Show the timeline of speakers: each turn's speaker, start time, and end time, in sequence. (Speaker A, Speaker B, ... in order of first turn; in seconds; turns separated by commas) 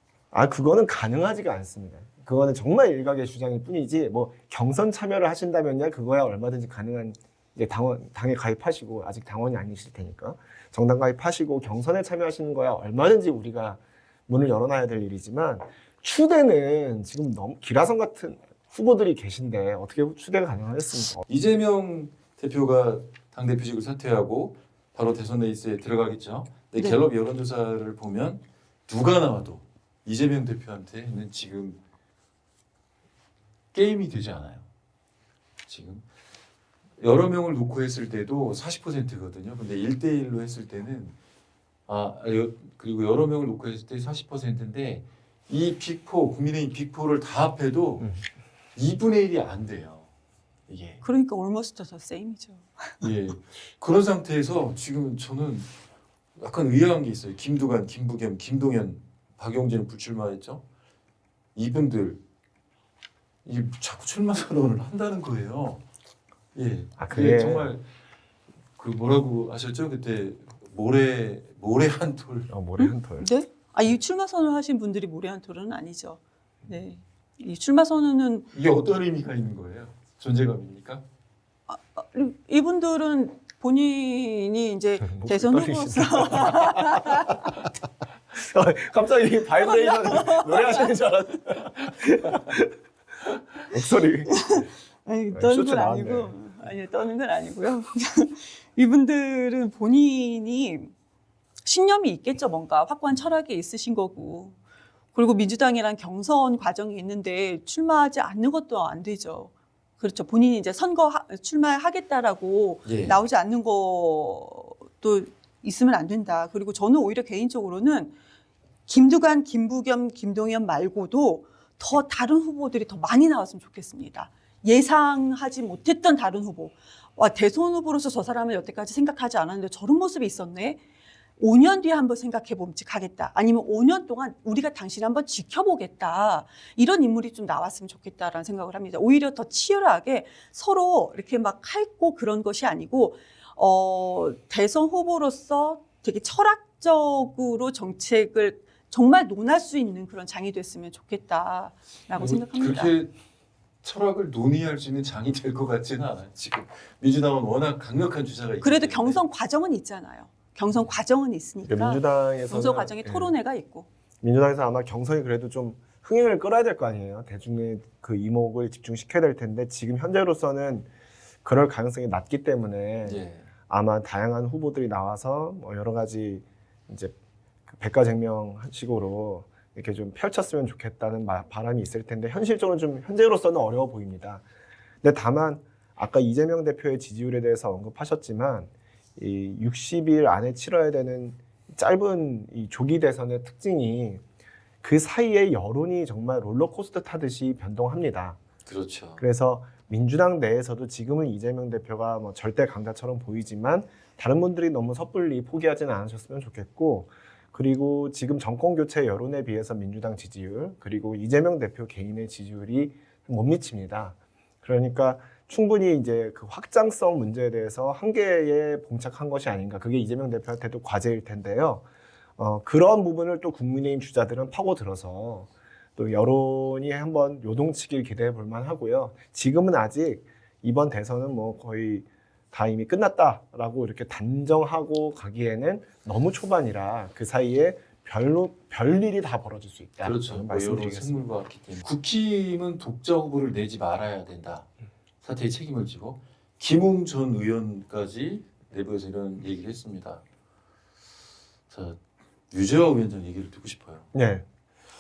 Speaker A: 0.3-21.2, Speaker B: 21.2-31.8, Speaker B: 33.7-34.7, Speaker B: 35.7-36.0, Speaker B: 37.0-41.1, Speaker B: 41.9-48.1, Speaker B: 48.8-50.1, Speaker B: 50.7-51.0, Speaker C: 51.0-53.0, Speaker B: 53.0-55.7, Speaker B: 56.4-60.6, Speaker B: 61.5-62.2, Speaker B: 63.4-65.8, Speaker B: 66.5-67.8, Speaker A: 67.0-67.7, Speaker B: 68.8-72.5, Speaker A: 72.5-73.3, Speaker C: 72.8-78.5, Speaker B: 78.5-81.0, Speaker C: 81.7-87.5, Speaker A: 85.0-87.7, Speaker A: 88.3-92.7, Speaker C: 89.6-90.9, Speaker A: 93.7-94.7, Speaker C: 94.3-100.9, Speaker A: 95.3-96.4, Speaker C: 101.6-104.5, Speaker C: 105.1-118.1, Speaker B: 112.8-113.2, Speaker C: 118.9-130.8, Speaker C: 131.4-152.9, Speaker B: 152.2-153.1, Speaker B: 153.8-159.2, Speaker C: 158.6-163.9, Speaker A: 161.6-163.3, Speaker A: 164.2-170.9, Speaker A: 171.4-177.1, Speaker B: 173.0-173.4, Speaker A: 177.7-184.4, Speaker A: 185.0-194.2, Speaker A: 194.8-198.4, Speaker B: 198.7-199.2, Speaker A: 199.2-221.8, Speaker A: 222.4-241.1, Speaker B: 240.0-244.7, Speaker B: 245.2-250.2, Speaker B: 251.7-254.1, Speaker A: 254.1-254.4